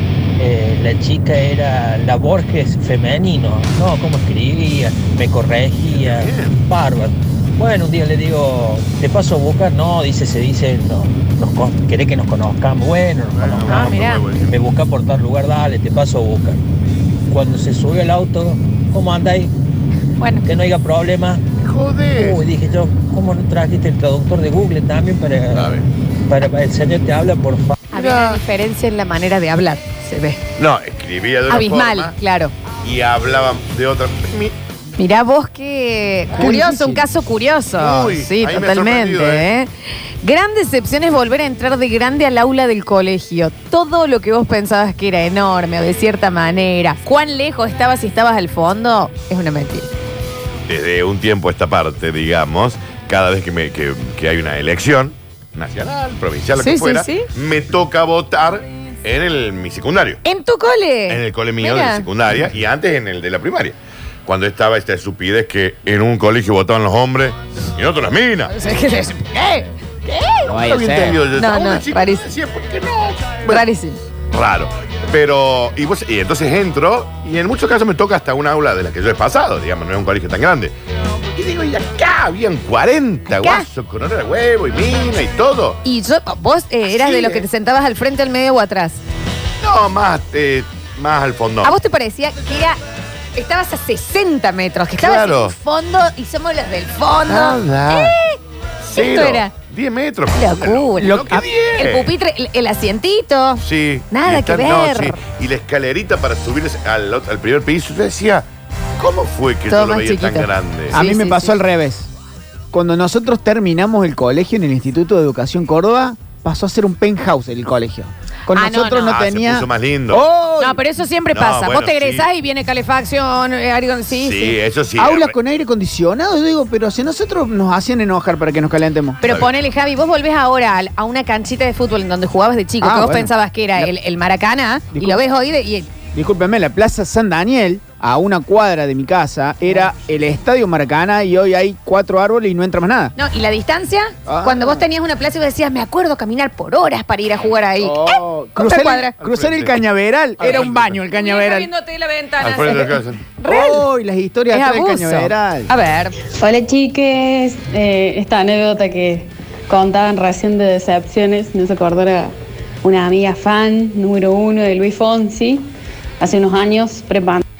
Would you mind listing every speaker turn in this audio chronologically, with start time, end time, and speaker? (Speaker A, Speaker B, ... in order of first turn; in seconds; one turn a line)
Speaker A: 0.4-14.0
Speaker B: 5.8-6.6
Speaker B: 13.2-14.5
Speaker C: 13.7-14.2
Speaker A: 14.6-16.6
Speaker A: 17.3-19.5
Speaker C: 20.2-20.5
Speaker A: 20.5-21.4
Speaker B: 21.6-22.5
Speaker A: 22.2-25.7
Speaker B: 25.4-25.8
Speaker A: 26.3-27.7
Speaker C: 27.9-30.4
Speaker B: 27.9-28.4
Speaker B: 30.6-32.1
Speaker C: 31.5-32.5
Speaker B: 32.8-34.5
Speaker C: 35.0-39.7
Speaker D: 36.4-37.0
Speaker B: 37.8-39.5
Speaker C: 40.2-49.9
Speaker B: 50.7-60.2
Speaker C: 56.5-57.3
Speaker C: 60.2-62.0
Speaker B: 61.1-68.5
Speaker C: 68.5-70.6
Speaker D: 70.5-71.2
Speaker B: 70.5-73.7
Speaker C: 71.3-72.3
Speaker C: 73.5-74.0
Speaker B: 74.3-80.7
Speaker B: 81.3-85.8
Speaker C: 83.3-83.7
Speaker C: 85.8-89.0
Speaker B: 86.9-87.5
Speaker B: 89.6-91.7
Speaker C: 91.6-92.8
Speaker C: 93.3-98.4
Speaker B: 95.0-95.5
Speaker B: 97.3-98.2
Speaker B: 98.8-102.1
Speaker C: 98.9-99.5
Speaker C: 100.3-105.2
Speaker D: 101.0-101.5
Speaker B: 103.6-108.5
Speaker B: 109.0-111.0
Speaker C: 109.7-111.5
Speaker D: 110.9-112.1
Speaker D: 112.7-120.8
Speaker C: 118.5-119.2
Speaker B: 119.0-120.2
Speaker C: 120.6-124.6
Speaker B: 121.3-122.3
Speaker B: 124.1-125.4
Speaker D: 125.0-129.2
Speaker C: 129.2-135.9
Speaker B: 129.2-129.5
Speaker D: 132.8-133.9
Speaker D: 134.9-135.2
Speaker D: 136.1-143.1
Speaker C: 143.2-149.1
Speaker D: 144.2-144.8
Speaker D: 147.8-151.7
Speaker B: 149.2-149.8
Speaker B: 150.4-151.0
Speaker C: 150.4-153.8
Speaker B: 152.4-153.3
Speaker D: 153.5-155.7
Speaker C: 154.5-156.2
Speaker E: 156.4-162.3
Speaker E: 162.8-165.7
Speaker E: 166.2-167.4